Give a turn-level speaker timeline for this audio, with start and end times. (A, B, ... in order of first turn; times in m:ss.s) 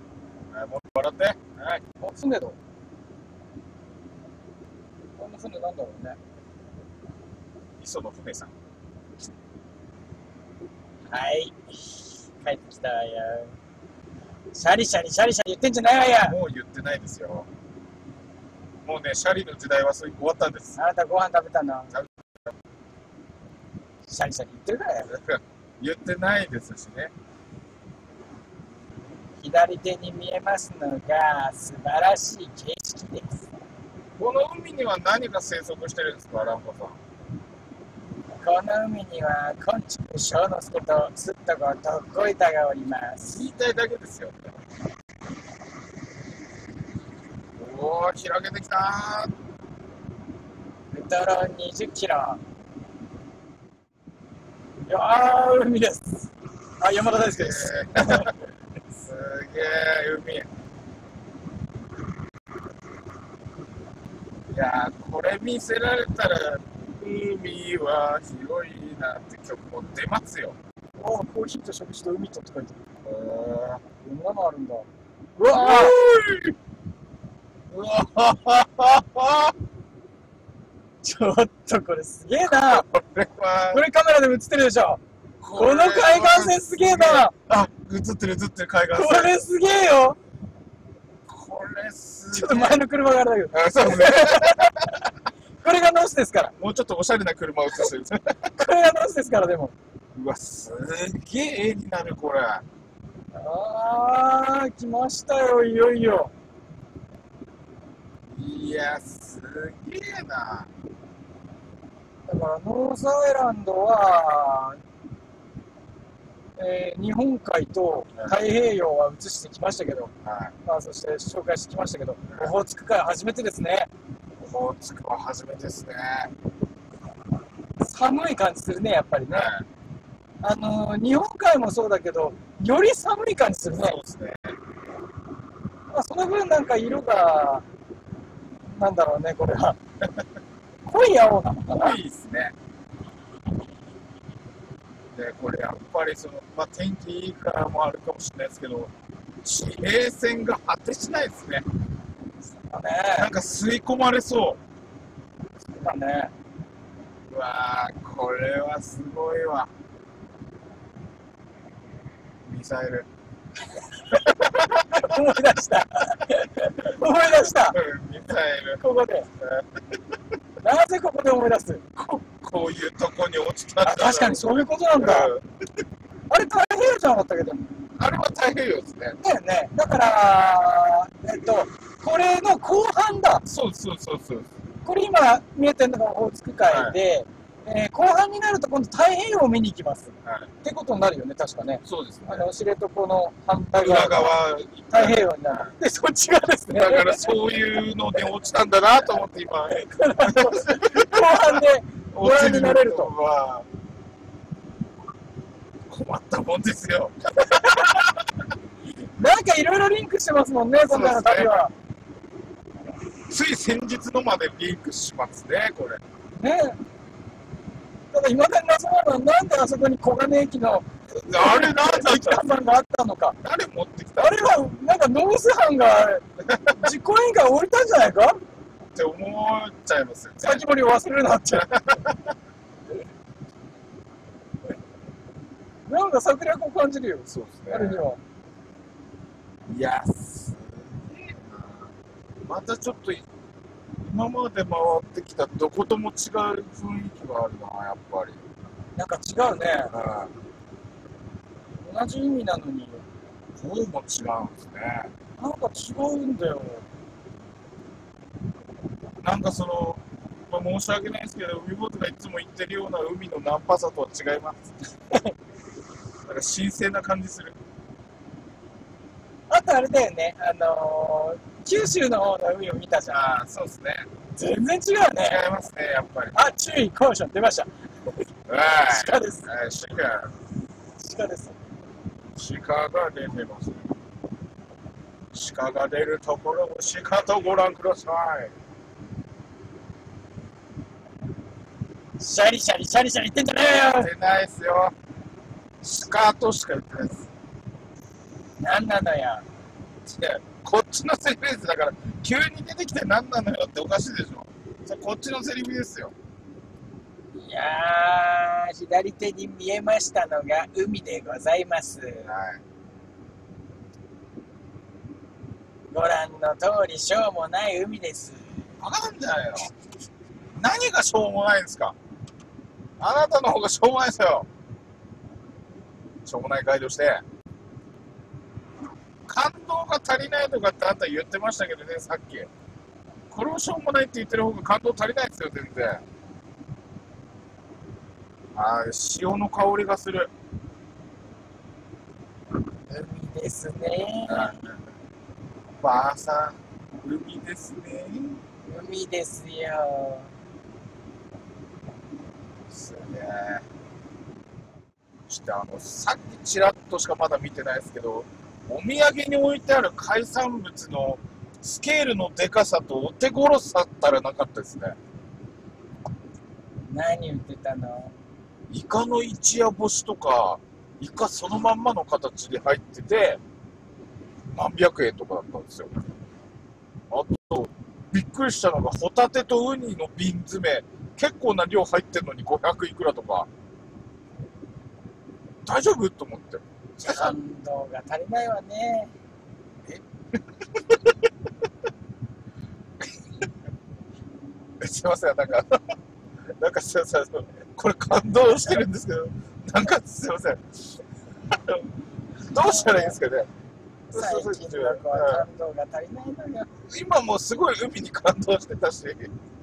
0:00.5-0:01.6 A
0:01.6-0:02.6 B
0:05.2-0:06.2 B
0:07.8-0:08.5 A
0:11.1-0:13.5 B
0:14.5-0:16.4 B
0:16.2-0:17.5 A
0:18.8-0:20.8 A
0:20.8-0:21.9 B
0:24.1-0:25.1 B
0:25.1-0:27.1 A
0:29.4-0:33.5 B
0:34.2-0:37.0 A
0:38.4-0:43.4 B
0:43.2-0:44.4 A
0:47.6-0:49.3 A
0:50.9-0:52.4 B
0:54.8-0:58.3 B
0:57.1-0:58.3 A
0:59.0-1:00.5 A
1:04.5-1:10.6 A
1:11.0-1:12.8 B
1:13.0-1:13.8 A
1:14.0-1:16.0 B
1:15.5-1:16.5 A
1:17.7-1:19.6 A
1:21.0-1:22.9 B
1:22.7-1:23.8 A
1:23.7-1:25.0 B
1:25.4-1:29.4 A
1:25.5-1:27.3 B
1:28.9-1:30.2 B
1:31.3-1:32.8 A
1:32.3-1:34.9 B
1:33.5-1:34.9 A
1:35.6-1:36.5 B
1:36.6-1:38.5 A
1:38.5-1:39.7 B
1:40.1-1:42.6 A
1:43.3-1:46.3 B
1:48.3-1:50.7 A
1:52.3-1:54.8 B
1:56.6-2:00.1 B
2:00.2-2:00.5 A
2:00.6-2:03.9 B
2:02.3-2:02.5 A
2:04.4-2:06.3 A
2:07.8-2:09.5 B
2:09.3-2:09.6 A
2:10.4-2:14.0 B
2:13.7-2:14.5 A
2:15.9-2:17.6 B
2:18.7-2:19.8 B
2:20.8-2:22.0 B
2:21.7-2:22.5 A
2:25.1-2:28.9 A
2:29.4-2:31.7 A
2:32.5-2:33.3 B
2:33.1-2:34.6 A
2:35.7-2:36.3 B
2:37.3-2:39.7 A
2:42.4-2:43.1 A
2:44.1-2:47.8 B
2:44.1-2:45.2 A
2:47.7-2:48.8 A
2:48.8-2:49.3 B
2:49.4-2:49.7 A
2:50.6-2:52.2 B
2:52.2-2:55.4 A
2:53.8-2:55.3 B
2:56.3-2:57.8 B
2:58.0-2:59.2 A
2:59.2-3:03.4 B
3:03.4-3:04.5 A
3:04.8-3:14.4 B
3:06.7-3:07.0 A
3:11.8-3:12.5 A
3:13.8-3:15.7 A
3:14.9-3:17.4 B
3:16.7-3:23.7 A
3:19.7-3:23.1 B
3:25.9-3:28.4 A
3:29.2-3:31.7 B
3:30.9-3:31.6 A
3:33.3-3:36.0 A
3:36.4-3:36.8 B
3:38.1-3:43.4 B
3:41.2-3:42.5 A
3:43.4-3:44.5 A
3:44.2-3:48.4 B
3:46.5-3:46.9 A
3:48.9-3:50.6 A
3:50.4-3:51.7 B
3:51.5-3:52.3 A
3:55.9-3:58.2 B
3:57.3-3:58.0 A
3:59.7-4:01.9 A
4:02.5-4:03.2 A
4:04.0-4:08.4 A
4:08.9-4:09.9 B
4:09.9-4:10.3 A
4:11.8-4:13.0 B
4:13.6-4:15.1 A
4:15.4-4:16.8 B
4:19.2-4:24.7 A
4:26.2-4:27.6 A
4:29.5-4:33.3 B
4:33.1-4:34.1 A
4:34.4-4:35.4 B
4:35.2-4:36.4 A
4:36.3-4:37.7 B
4:38.5-4:40.3 A
4:38.8-4:39.5 B
4:41.0-4:41.6 B
4:42.3-4:43.9 A
4:45.3-4:48.5 A
4:52.2-4:54.1 B
4:53.6-4:54.9 A
4:55.8-4:57.3 A
4:58.6-4:59.4 B
5:00.0-5:06.1 A
5:07.3-5:12.3 B
5:12.2-5:12.6 A
5:15.9-5:18.4 B
5:18.8-5:19.7 A
5:20.6-5:21.9 A
5:23.0-5:24.5 A
5:26.2-5:27.2 A
5:29.2-5:32.5 A
5:33.3-5:36.0 A
5:38.5-5:40.3 A
5:42.9-5:44.6 B
5:44.3-5:44.8 A
5:45.8-5:48.4 A
5:48.6-5:50.3 B
5:52.7-5:53.6 A
5:55.3-6:05.0 A
6:06.9-6:08.2 B
6:08.7-6:13.4 A
6:14.5-6:16.0 A
6:17.1-6:23.5 A
6:25.6-6:27.3 A
6:27.0-6:29.1 B
6:29.8-6:31.2 A
6:33.0-6:33.4 A
6:34.8-6:35.8 A
6:36.5-6:41.9 A
6:42.4-6:43.5 A
6:42.5-6:43.2 B
6:44.1-6:45.4 A
6:44.1-6:46.7 B
6:46.8-6:49.3 A